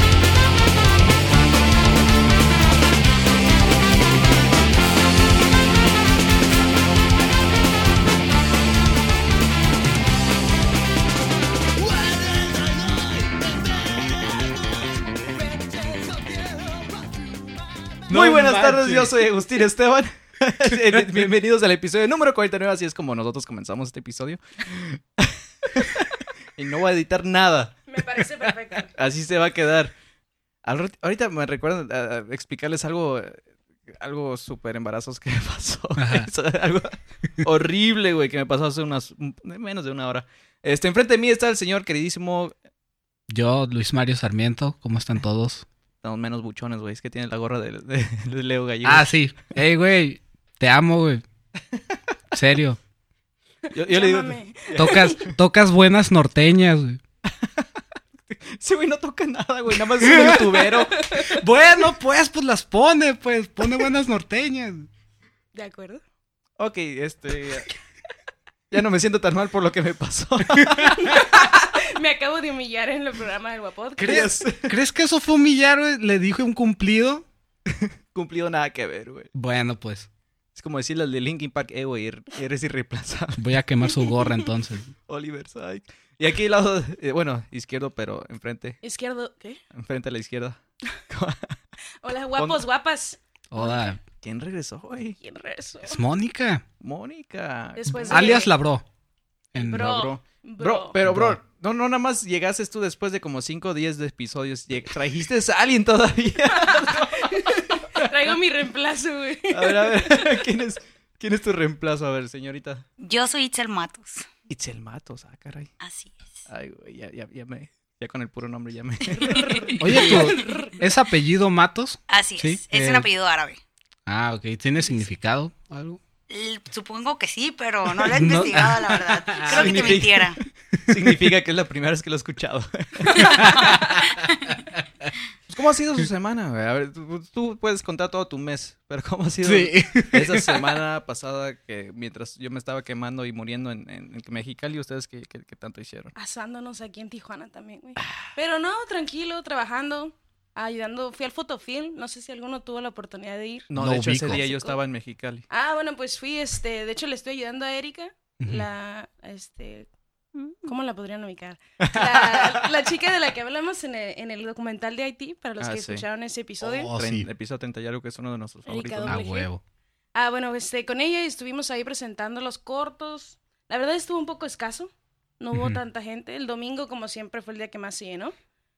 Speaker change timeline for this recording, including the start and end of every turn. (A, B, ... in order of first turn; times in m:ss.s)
0:11.8-0:14.4 A
0:15.8-0:16.8 A
0:18.1-0:19.2 B
0:18.1-0:27.8 A
0:27.9-0:28.9 C
0:28.9-0:29.9 A
0:30.6-0:42.6 A
0:36.0-0:36.3 B
0:43.3-0:45.6 B
0:46.0-0:49.1 A
0:48.8-0:51.2 B
0:52.3-0:52.8 B
0:53.7-0:55.3 C
0:53.7-0:55.3 A
0:54.7-0:57.0 B
0:57.3-0:57.7 A
0:58.3-1:01.0 A
1:00.0-1:00.4 B
1:00.0-1:01.4 C
1:01.3-1:04.9 B
1:05.5-1:06.0 C
1:06.6-1:07.7 A
1:08.7-1:11.2 A
1:11.0-1:14.3 C
1:14.0-1:14.7 A
1:14.0-1:17.2 B
1:17.7-1:19.3 A
1:19.3-1:20.1 B
1:20.5-1:23.4 A
1:23.4-1:24.9 B
1:24.0-1:24.4 C
1:25.1-1:28.8 A
1:28.8-1:29.6 C
1:29.7-1:31.6 A
1:32.0-1:34.0 C
1:32.3-1:32.6 A
1:33.5-1:34.0 B
1:34.2-1:35.2 A
1:35.2-1:36.0 C
1:35.8-1:36.6 B
1:36.8-1:38.4 A
1:37.8-1:38.5 C
1:38.1-1:38.8 B
1:39.5-1:39.9 B
1:39.5-1:41.0 C
1:39.6-1:48.1 A
1:41.0-1:41.4 B
1:46.6-1:50.4 C
1:49.5-1:52.8 A
1:53.0-1:54.2 D
1:54.5-1:55.7 A
1:55.8-1:56.2 D
1:56.5-2:00.3 A
1:59.1-2:00.8 C
1:59.8-2:03.1 B
2:02.1-2:03.6 D
2:04.0-2:06.0 B
2:06.3-2:10.4 D
2:08.0-2:10.0 B
2:09.5-2:10.3 A
2:10.9-2:11.2 B
2:10.9-2:13.6 A
2:13.1-2:13.7 C
2:13.1-2:14.0 B
2:14.7-2:15.1 B
2:15.5-2:26.1 A
2:19.4-2:20.7 B
2:26.1-2:33.7 C
2:33.7-2:35.4 A
2:33.8-2:34.5 B
2:34.3-2:34.8 C
2:35.5-2:46.9 C
2:38.4-2:38.7 B
2:41.8-2:42.6 A
2:45.6-2:46.0 A
2:46.8-2:47.3 B
2:46.9-2:49.2 A
2:48.6-2:49.5 C
2:49.0-2:49.6 B
2:50.1-2:58.3 C
2:55.5-2:55.8 B